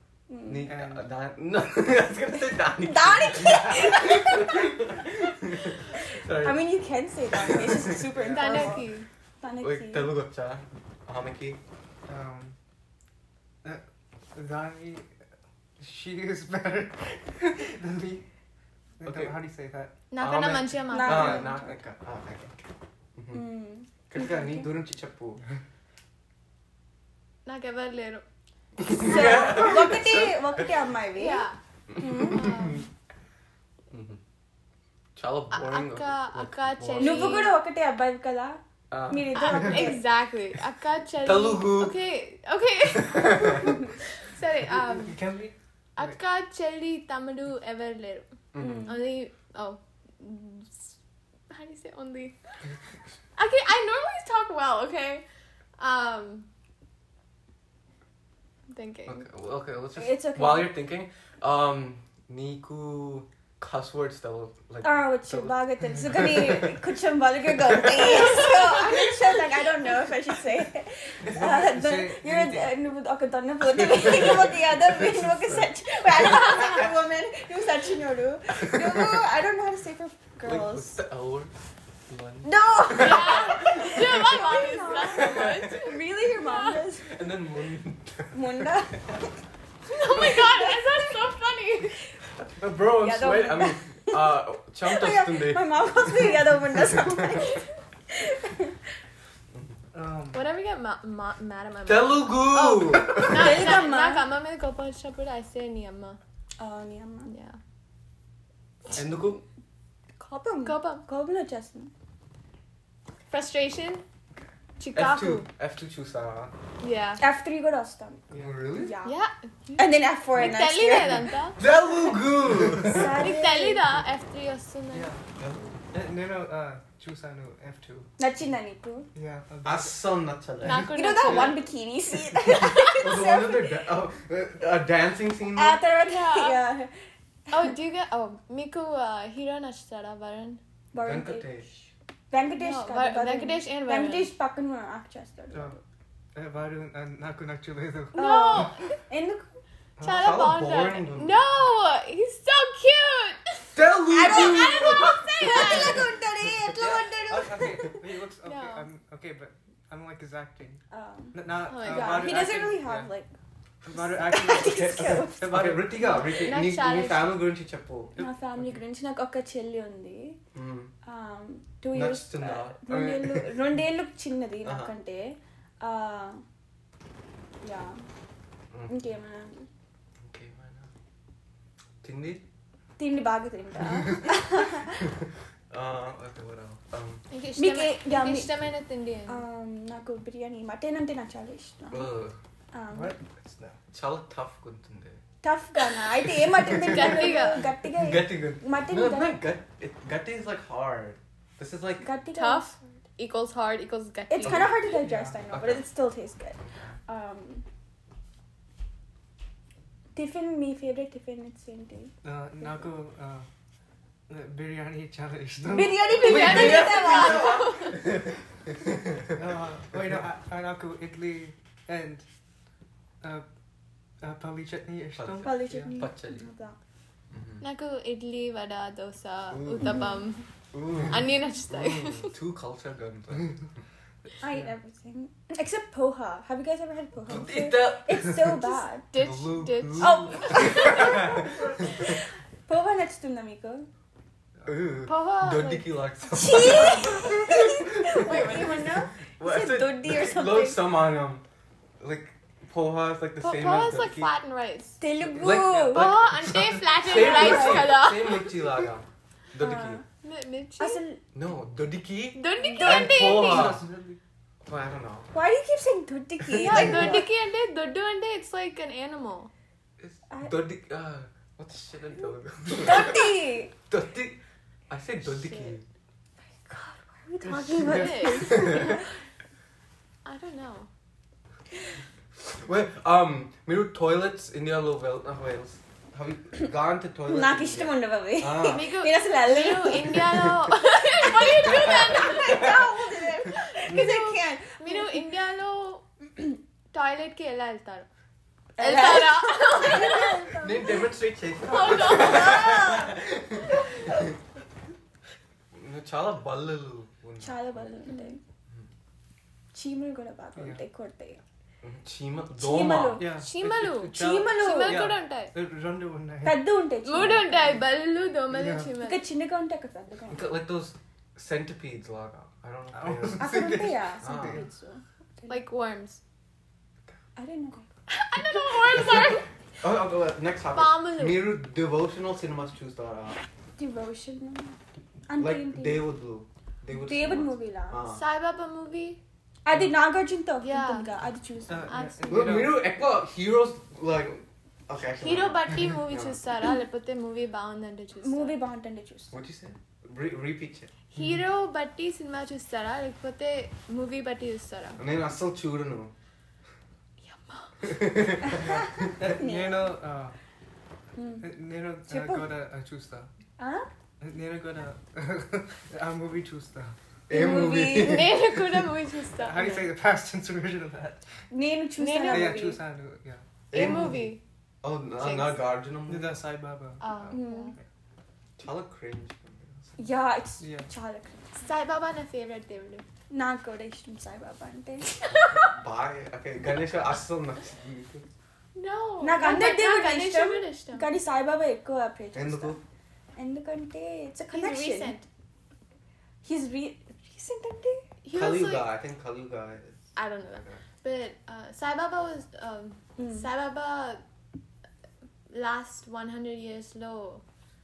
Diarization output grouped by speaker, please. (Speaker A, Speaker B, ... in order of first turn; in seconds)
Speaker A: 0.3-0.7, 2.8-4.6, 6.2-8.9, 9.4-10.1, 20.9-21.7, 23.3-24.7, 29.0-32.6, 37.0-40.0, 48.6-49.0, 60.0-60.7, 64.8-80.9, 82.4-87.3, 88.3-89.3, 90.1-91.2, 93.0-98.8, 103.2-104.2, 106.6-107.3, 110.2-111.9, 117.2-119.2, 119.8-121.3, 122.8-123.9, 128.2-129.1, 130.7-133.8, 135.5-137.0, 140.9-141.5, 142.3-145.8, 148.1-149.5, 154.1-158.0, 160.9-163.3, 163.9-165.5, 168.2-170.4, 171.0-176.4, 177.6-178.0, 178.9-179.7, 183.0-185.1, 187.6-188.5, 189.3-192.1, 192.7-193.1, 195.4-199.3, 202.0-202.8, 204.3-207.6, 210.1-212.8, 215.6-217.8, 225.4-226.8, 229.8-230.1, 234.4-239.1, 240.0-243.9, 246.3-250.8, 255.0-256.1, 257.0-258.0, 259.6-260.0, 260.8-261.2, 262.6-263.2, 265.3-267.3, 272.7-273.7, 276.6-279.0, 287.3-290.4, 291.5-295.2, 298.8-301.1, 301.8-303.1, 307.4-308.4, 309.7-311.4, 312.6-313.3, 314.1-315.1, 316.4-317.8, 319.0-320.5, 323.4-325.6, 327.4-327.9, 333.8-336.0, 336.9-338.0, 339.6-342.0, 348.2-349.3, 358.6-359.9, 361.1-361.5, 362.1-362.5, 363.6-363.9, 367.3-368.3, 371.5-372.8, 377.3-377.7, 380.0-381.6, 383.3-385.2, 389.2-392.8, 393.4-395.2, 396.4-398.1, 403.2-403.5
Speaker B: 0.5-6.7, 7.5-8.0, 9.6-11.6, 19.0-19.4, 20.2-23.5, 24.1-25.4, 28.8-30.8, 31.9-32.8, 33.9-34.2, 35.1-37.4, 38.9-39.4, 41.2-42.0, 43.0-43.7, 48.5-48.9, 59.1-66.8, 67.6-68.8, 73.8-76.7, 78.7-79.2, 80.4-81.5, 82.1-84.3, 84.9-85.8, 87.0-88.8, 92.4-96.2, 96.8-97.4, 101.8-103.7, 108.9-109.4, 114.9-116.5, 118.3-119.0, 121.6-123.2, 125.4-125.8, 129.6-130.9, 132.5-135.8, 141.0-141.9, 150.1-151.4, 153.7-156.5, 164.6-168.2, 170.5-170.9, 171.9-173.7, 174.6-174.9, 178.7-179.0, 180.2-180.9, 182.0-182.4, 185.7-187.2, 191.9-192.4, 193.9-195.2, 196.6-197.4, 197.9-202.1, 204.4-204.7, 205.5-205.8, 206.6-206.9, 216.2-219.3, 225.2-226.5, 227.3-227.6, 229.5-230.1, 230.7-233.6, 237.3-238.5, 239.2-241.4, 244.7-251.4, 252.0-254.3, 255.2-260.0, 261.3-263.8, 264.6-265.3, 266.4-267.0, 270.0-273.3, 273.9-274.4, 274.9-275.8, 278.3-279.0, 282.5-288.9, 300.6-304.2, 305.7-307.9, 311.8-313.3, 320.3-323.6, 324.2-324.6, 329.8-333.4, 335.4-338.2, 342.3-346.4, 349.3-350.9, 355.0-356.1, 357.8-359.2, 367.3-368.5, 373.7-374.3, 374.8-376.4, 378.6-380.0, 385.3-388.2, 392.3-392.8, 398.3-400.0, 400.5-400.8
Speaker C: 0.6-1.0, 8.1-8.9, 12.1-12.6, 14.3-15.1, 15.8-18.2, 19.0-19.9, 44.9-46.1, 71.3-72.7, 99.9-100.4, 118.3-118.6, 124.9-125.2, 125.9-128.1, 129.1-130.0, 131.2-131.6, 146.3-148.8, 150.0-150.4, 156.7-160.8, 161.3-163.1, 163.8-166.2, 168.2-168.8, 192.9-193.8, 204.9-205.4, 212.2-213.5, 214.3-216.6, 219.3-222.2, 223.2-223.4, 224.2-226.0, 255.4-255.8, 263.1-264.2, 277.7-278.4, 310.6-310.8, 313.2-316.6, 317.1-317.8, 318.5-318.9, 322.9-324.6, 341.7-342.8, 351.1-351.4, 358.7-360.3, 361.4-363.3, 364.2-366.9, 369.4-371.2, 372.3-373.4, 376.1-377.8, 380.6-380.9
Speaker D: 8.3-9.1, 20.1-21.5, 27.4-28.2, 28.9-29.7, 31.2-31.6, 32.2-32.8, 35.5-37.5, 39.3-45.2, 46.0-51.0, 51.5-52.4, 53.4-55.2, 55.8-56.5, 58.7-59.2, 83.0-86.8, 89.9-92.0, 100.3-106.2, 107.3-107.6, 110.6-111.0, 113.3-114.0, 114.8-115.4, 116.8-117.2, 119.0-121.6, 123.0-125.1, 130.6-131.6, 135.9-136.6, 137.5-140.6, 142.5-144.3, 148.1-149.0, 150.0-153.7, 154.2-156.1, 158.4-158.9, 161.7-162.4, 166.2-167.4, 187.3-189.4, 196.7-197.7, 202.3-204.8, 216.0-218.0, 227.6-230.5, 231.1-232.3, 239.1-241.8, 245.1-245.9, 253.4-255.0, 255.9-258.9, 260.2-261.0, 262.3-263.7, 266.5-269.5, 275.3-275.8, 277.4-279.1, 280.2-280.9, 288.5-292.8, 293.5-296.1, 296.9-298.1, 298.8-300.5, 301.7-303.1, 308.1-308.4, 313.4-315.5, 317.0-319.2, 325.5-326.2, 328.1-329.4, 330.7-331.4, 338.1-339.2, 340.6-341.1, 341.9-342.7, 345.2-348.6, 351.1-355.0, 357.2-357.9, 367.9-369.9, 372.0-372.7, 373.7-374.4, 375.2-375.6, 377.0-377.7, 381.6-383.0, 388.7-391.1, 394.5-395.2, 398.2-398.9, 400.1-404.2, 405.5-407.4